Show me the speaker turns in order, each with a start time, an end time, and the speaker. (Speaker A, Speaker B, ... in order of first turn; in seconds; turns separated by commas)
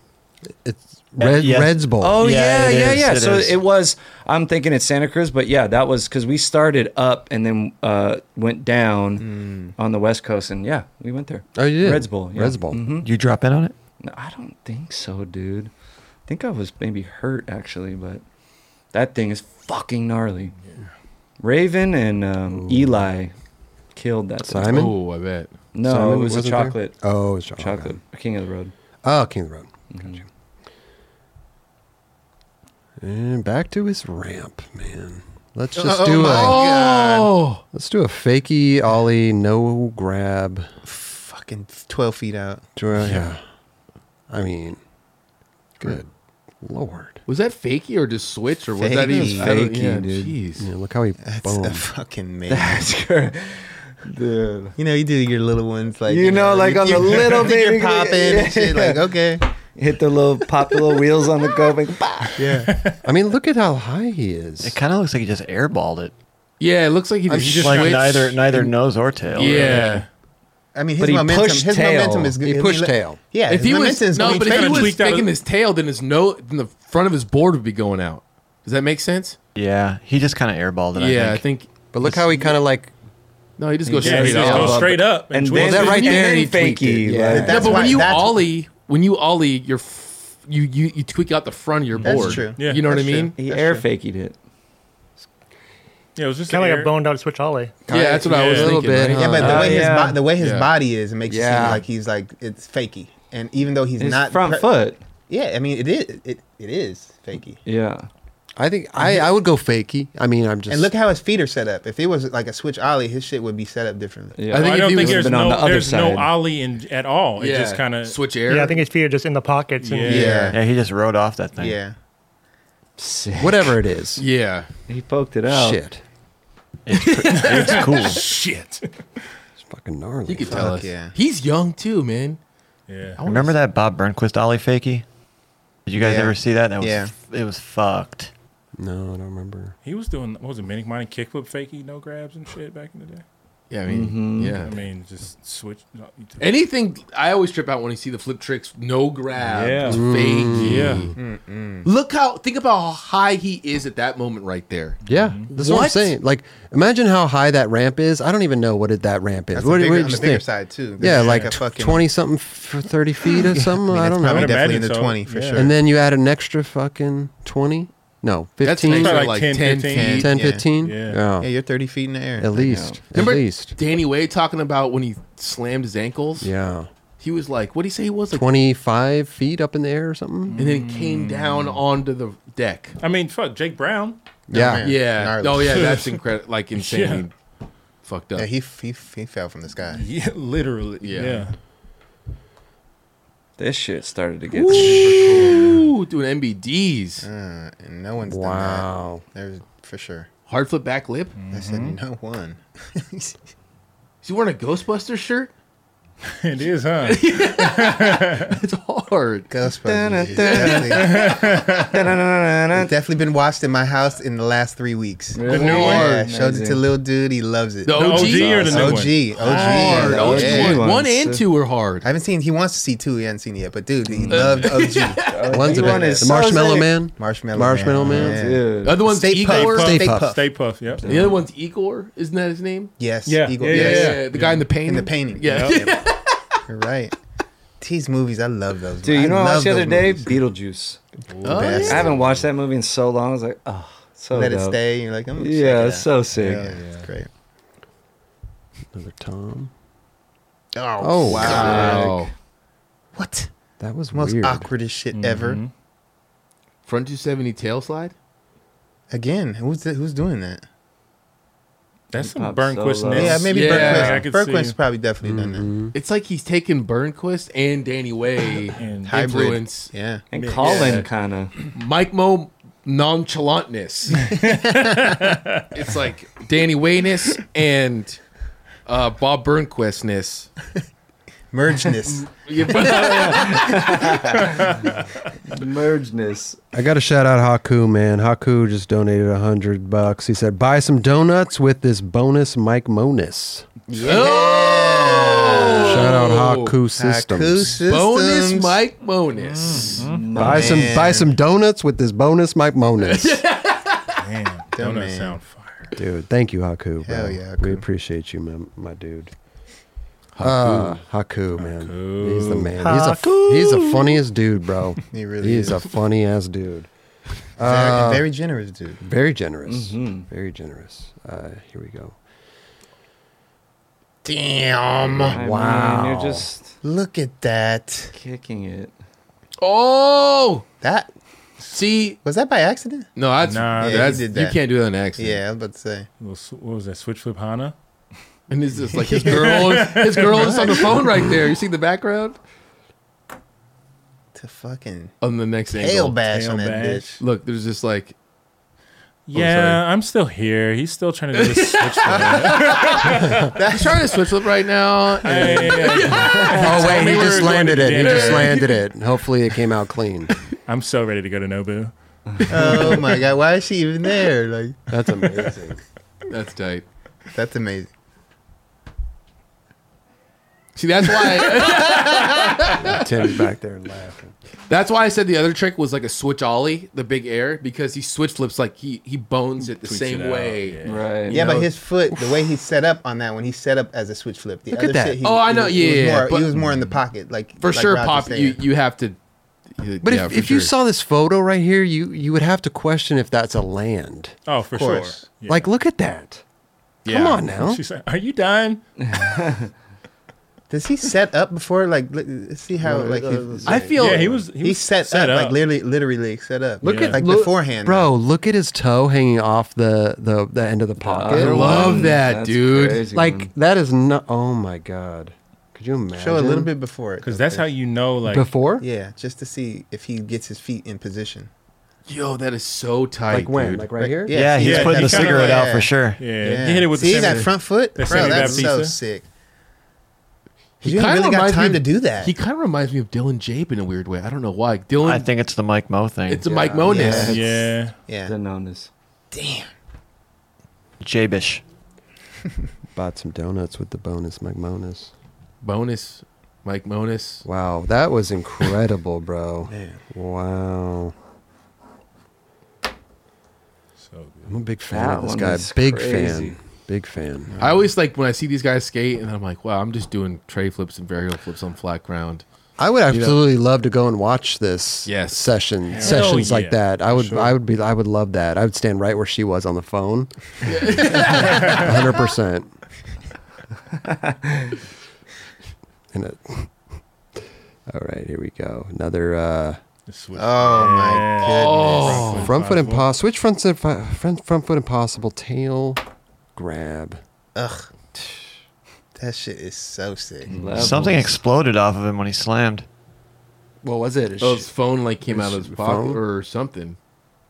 Speaker A: 0.6-2.2, Speaker B: 1.2-3.6, Speaker C: 2.0-13.1, Speaker D: 9.2-9.7, Speaker A: 11.5-12.8, Speaker B: 13.0-13.7, Speaker C: 14.0-15.7, Speaker C: 16.3-18.2, Speaker C: 18.9-20.5, Speaker C: 21.4-23.3, Speaker A: 22.5-23.0, Speaker C: 23.9-24.9, Speaker A: 24.4-24.9, Speaker E: 24.7-25.5, Speaker C: 25.7-27.0, Speaker A: 25.8-28.0, Speaker C: 27.6-28.7, Speaker A: 29.0-30.2, Speaker C: 29.9-30.2, Speaker A: 33.0-36.7, Speaker D: 35.8-37.4, Speaker E: 36.1-37.6, Speaker A: 37.7-40.7, Speaker D: 40.8-42.6, Speaker A: 42.8-43.4, Speaker A: 44.3-44.8, Speaker A: 45.8-46.1, Speaker A: 46.6-47.2, Speaker E: 47.2-50.7, Speaker D: 48.7-49.5, Speaker C: 49.0-50.3, Speaker A: 50.6-51.9, Speaker D: 51.2-52.9, Speaker C: 52.5-54.7, Speaker D: 54.8-59.5, Speaker C: 56.1-59.1, Speaker C: 59.7-62.4, Speaker D: 62.4-62.7, Speaker F: 62.5-63.0, Speaker A: 63.0-64.8, Speaker B: 64.6-66.1, Speaker E: 66.6-68.7, Speaker A: 67.3-68.0, Speaker B: 67.4-69.9, Speaker E: 69.3-70.0, Speaker F: 69.3-70.1, Speaker D: 70.7-74.9, Speaker C: 71.0-72.3, Speaker A: 72.4-73.2, Speaker E: 73.5-79.4, Speaker F: 74.1-75.3, Speaker B: 79.5-81.4, Speaker E: 81.0-82.5, Speaker A: 81.9-82.9, Speaker E: 83.6-84.9, Speaker C: 83.8-87.8, Speaker F: 84.0-86.2, Speaker E: 85.5-93.3, Speaker A: 85.6-88.1, Speaker D: 87.4-88.4, Speaker F: 92.0-92.9, Speaker D: 92.0-93.8, Speaker C: 93.4-94.4, Speaker F: 96.2-96.9, Speaker G: 96.5-97.8, Speaker A: 97.9-99.6, Speaker E: 97.9-100.7, Speaker F: 98.3-98.8, Speaker D: 99.2-104.7, Speaker C: 99.4-100.2, Speaker A: 101.2-101.8, Speaker C: 104.0-105.0, Speaker D: 105.3-107.6, Speaker C: 107.6-108.1, Speaker A: 108.6-110.9, Speaker D: 109.0-109.3, Speaker D: 110.7-114.5, Speaker C: 114.3-116.3, Speaker E: 114.5-115.3, Speaker F: 114.5-118.2, Speaker E: 117.4-118.9, Speaker G: 118.5-120.4, Speaker F: 119.8-120.5, Speaker D: 120.0-120.6, Speaker E: 120.1-120.5, Speaker B: 120.5-121.8, Speaker D: 121.5-121.9, Speaker C: 123.0-123.8, Speaker A: 123.4-124.2, Speaker E: 124.2-124.7, Speaker C: 124.9-125.8, Speaker A: 125.5-126.0, Speaker B: 126.9-128.3, Speaker E: 126.9-128.2, Speaker F: 127.3-128.9, Speaker A: 129.6-130.8, Speaker E: 130.3-132.4, Speaker D: 130.5-131.1, Speaker F: 132.9-133.2, Speaker E: 133.2-133.6, Speaker B: 133.2-135.0, Speaker B: 135.8-138.3, Speaker D: 135.9-137.1, Speaker A: 138.8-139.8, Speaker F: 139.8-143.2, Speaker E: 143.7-144.8, Speaker C: 143.9-144.6, Speaker F: 144.6-146.5, Speaker E: 146.4-151.2, Speaker F: 149.4-151.1, Speaker A: 149.9-151.1, Speaker D: 151.2-151.9, Speaker E: 151.8-155.0, Speaker F: 155.0-155.5, Speaker A: 155.1-160.4, Speaker E: 155.6-156.1, Speaker D: 159.5-162.1, Speaker A: 161.0-164.6, Speaker F: 161.0-161.6, Speaker D: 163.9-165.7, Speaker F: 164.2-165.7, Speaker A: 165.5-169.3, Speaker E: 168.6-170.3, Speaker F: 168.9-171.2, Speaker D: 169.9-170.7, Speaker A: 170.2-171.5, Speaker D: 171.4-172.5, Speaker A: 172.4-173.7, Speaker C: 172.6-173.0, Speaker E: 173.1-176.5, Speaker A: 176.4-176.9, Speaker E: 177.2-178.5, Speaker A: 178.3-180.6, Speaker F: 180.4-181.8, Speaker E: 180.6-183.0, Speaker F: 183.0-184.2, Speaker D: 184.5-185.9, Speaker A: 184.5-184.9, Speaker E: 184.8-187.3, Speaker F: 185.7-186.2, Speaker F: 186.8-187.3, Speaker E: 188.0-188.5, Speaker D: 188.3-190.1, Speaker F: 189.9-191.5, Speaker E: 191.0-191.5, Speaker C: 193.6-195.7, Speaker E: 194.5-197.3, Speaker F: 194.7-195.8, Speaker D: 197.2-200.3, Speaker A: 198.2-199.2, Speaker E: 200.5-201.3, Speaker F: 201.4-202.0, Speaker D: 201.5-203.3, Speaker E: 204.2-205.5, Speaker F: 206.4-208.6, Speaker E: 207.0-209.5, Speaker D: 209.5-211.3, Speaker C: 209.8-211.2, Speaker E: 210.3-211.9, Speaker F: 210.9-212.1, Speaker C: 211.8-212.9, Speaker D: 212.7-220.9, Speaker C: 215.3-216.8, Speaker F: 215.5-216.0, Speaker E: 215.5-216.2, Speaker E: 217.8-222.1, Speaker F: 217.9-220.4, Speaker C: 219.5-221.4, Speaker D: 222.0-226.3, Speaker F: 224.1-224.6, Speaker E: 224.3-225.8, Speaker C: 225.2-226.9, Speaker A: 225.5-228.4, Speaker D: 227.2-230.5, Speaker C: 228.2-229.0, Speaker E: 228.8-229.9, Speaker F: 229.5-231.3, Speaker A: 229.6-230.3, Speaker C: 231.0-231.3, Speaker E: 231.0-232.9, Speaker D: 233.0-236.0, Speaker F: 233.2-234.7, Speaker E: 233.6-236.6, Speaker F: 235.4-235.9, Speaker D: 236.7-237.1, Speaker D: 237.8-240.4, Speaker C: 239.0-241.0, Speaker F: 241.3-242.4, Speaker D: 241.4-242.2, Speaker E: 241.4-242.1, Speaker C: 241.8-244.8, Speaker D: 244.3-247.3, Speaker C: 245.4-246.7, Speaker F: 246.4-247.1, Speaker A: 248.9-249.7, Speaker D: 250.7-252.2, Speaker A: 251.0-252.1, Speaker E: 251.3-252.3, Speaker C: 251.4-252.2, Speaker D: 253.1-253.5, Speaker A: 253.8-254.7, Speaker D: 254.1-255.6, Speaker F: 255.1-255.7, Speaker E: 256.9-258.1, Speaker D: 259.1-260.6, Speaker F: 262.1-264.8, Speaker C: 262.2-263.5, Speaker D: 263.1-265.7, Speaker E: 263.5-264.2, Speaker A: 265.2-265.9, Speaker E: 265.9-269.9, Speaker F: 268.8-269.1, Speaker D: 269.1-270.2, Speaker C: 270.3-271.5, Speaker F: 270.4-271.1, Speaker E: 270.6-271.1, Speaker E: 271.7-274.3, Speaker F: 274.2-275.7, Speaker D: 274.4-275.3, Speaker E: 275.7-278.2, Speaker E: 278.9-280.5, Speaker D: 281.5-282.3, Speaker E: 282.2-284.1, Speaker C: 282.8-284.5, Speaker F: 284.3-285.2, Speaker C: 285.5-286.6, Speaker A: 286.7-293.7, Speaker D: 293.9-296.1, Speaker E: 293.9-296.8, Speaker A: 295.8-297.9, Speaker D: 296.9-298.8, Speaker E: 297.9-300.0, Speaker F: 299.6-300.4, Speaker C: 299.7-300.9, Speaker A: 300.3-303.4, Speaker D: 300.4-301.3, Speaker E: 303.0-304.2, Speaker F: 304.2-305.9, Speaker D: 304.8-305.4, Speaker A: 306.0-309.3, Speaker D: 307.0-307.8, Speaker E: 310.4-311.0, Speaker A: 310.4-316.9, Speaker F: 311.5-312.7, Speaker G: 312.8-313.4, Speaker D: 315.1-315.9, Speaker A: 317.6-318.2, Speaker D: 317.6-319.0, Speaker A: 319.0-322.2, Speaker C: 319.6-320.3, Speaker D: 324.2-325.4, Speaker A: 325.1-326.5, Speaker C: 325.3-326.7, Speaker D: 326.8-328.1, Speaker C: 328.1-328.9, Speaker E: 329.6-330.6, Speaker D: 330.8-331.1, Speaker E: 331.7-332.2, Speaker D: 332.2-333.1, Speaker E: 333.1-335.4, Speaker F: 333.4-334.2, Speaker D: 333.8-334.6, Speaker D: 335.2-336.1, Speaker F: 336.2-337.7, Speaker E: 338.5-342.4, Speaker D: 338.9-339.6, Speaker F: 339.1-341.0, Speaker D: 340.3-341.0, Speaker D: 344.4-345.1, Speaker E: 345.2-346.2, Speaker D: 345.7-347.1, Speaker F: 346.3-347.2, Speaker E: 347.2-348.1, Speaker F: 349.3-353.6, Speaker E: 349.3-349.8, Speaker E: 351.3-358.8, Speaker D: 352.1-353.0, Speaker D: 353.5-354.1, Speaker F: 355.2-358.6, Speaker A: 356.5-360.3, Speaker F: 360.7-362.9, Speaker D: 362.5-364.8, Speaker E: 362.6-363.1, Speaker A: 364.9-365.8, Speaker E: 366.3-366.8, Speaker D: 367.3-367.9, Speaker E: 370.8-373.4, Speaker D: 371.8-372.3, Speaker A: 372.8-374.3, Speaker E: 374.7-380.8, Speaker F: 379.6-381.7, Speaker C: 380.8-381.4, Speaker D: 381.3-388.6, Speaker A: 382.1-382.5, Speaker A: 384.7-385.2, Speaker E: 385.2-386.5, Speaker F: 386.6-387.0, Speaker E: 387.6-389.2, Speaker E: 389.8-390.7, Speaker A: 390.0-394.4, Speaker F: 394.4-395.7, Speaker D: 394.7-395.2, Speaker A: 395.5-396.4, Speaker E: 397.0-397.4, Speaker A: 397.1-397.8, Speaker F: 397.6-399.6, Speaker C: 399.0-399.7, Speaker D: 400.7-408.1, Speaker A: 402.8-403.9, Speaker E: 403.6-404.4, Speaker F: 403.9-405.6, Speaker A: 406.8-412.1, Speaker F: 406.8-407.2, Speaker C: 411.0-413.5, Speaker E: 411.3-413.1, Speaker A: 413.1-416.7, Speaker D: 416.1-417.7, Speaker F: 417.2-418.5, Speaker A: 418.3-418.9, Speaker D: 418.8-421.5, Speaker E: 422.1-423.8, Speaker A: 423.3-424.4, Speaker B: 423.6-426.3, Speaker D: 423.9-429.2, Speaker F: 424.6-429.0, Speaker E: 430.8-435.3, Speaker D: 430.8-432.3, Speaker B: 435.0-436.5, Speaker E: 436.3-437.7, Speaker A: 436.4-437.3, Speaker D: 436.9-438.3, Speaker F: 437.1-437.9, Speaker C: 438.2-438.9, Speaker D: 439.3-439.7, Speaker B: 441.0-441.6, Speaker A: 442.9-445.1, Speaker E: 445.6-447.4, Speaker A: 447.4-451.1, Speaker D: 449.7-450.0, Speaker F: 454.0-454.6, Speaker A: 454.5-457.5, Speaker C: 454.9-456.6, Speaker D: 457.5-457.9, Speaker E: 457.6-462.4, Speaker A: 462.8-472.7, Speaker E: 463.1-463.4, Speaker E: 465.1-465.5, Speaker F: 465.9-467.5, Speaker E: 470.6-471.8, Speaker F: 471.2-471.9, Speaker A: 476.1-476.8, Speaker A: 477.4-479.8, Speaker F: 480.1-483.1, Speaker D: 480.4-482.5, Speaker E: 481.4-482.5, Speaker A: 482.4-486.0, Speaker A: 486.5-487.2, Speaker D: 487.5-487.9, Speaker D: 489.1-490.6, Speaker C: 490.4-491.3, Speaker B: 490.7-492.9, Speaker A: 493.8-494.6, Speaker E: 494.4-496.9, Speaker A: 495.3-496.2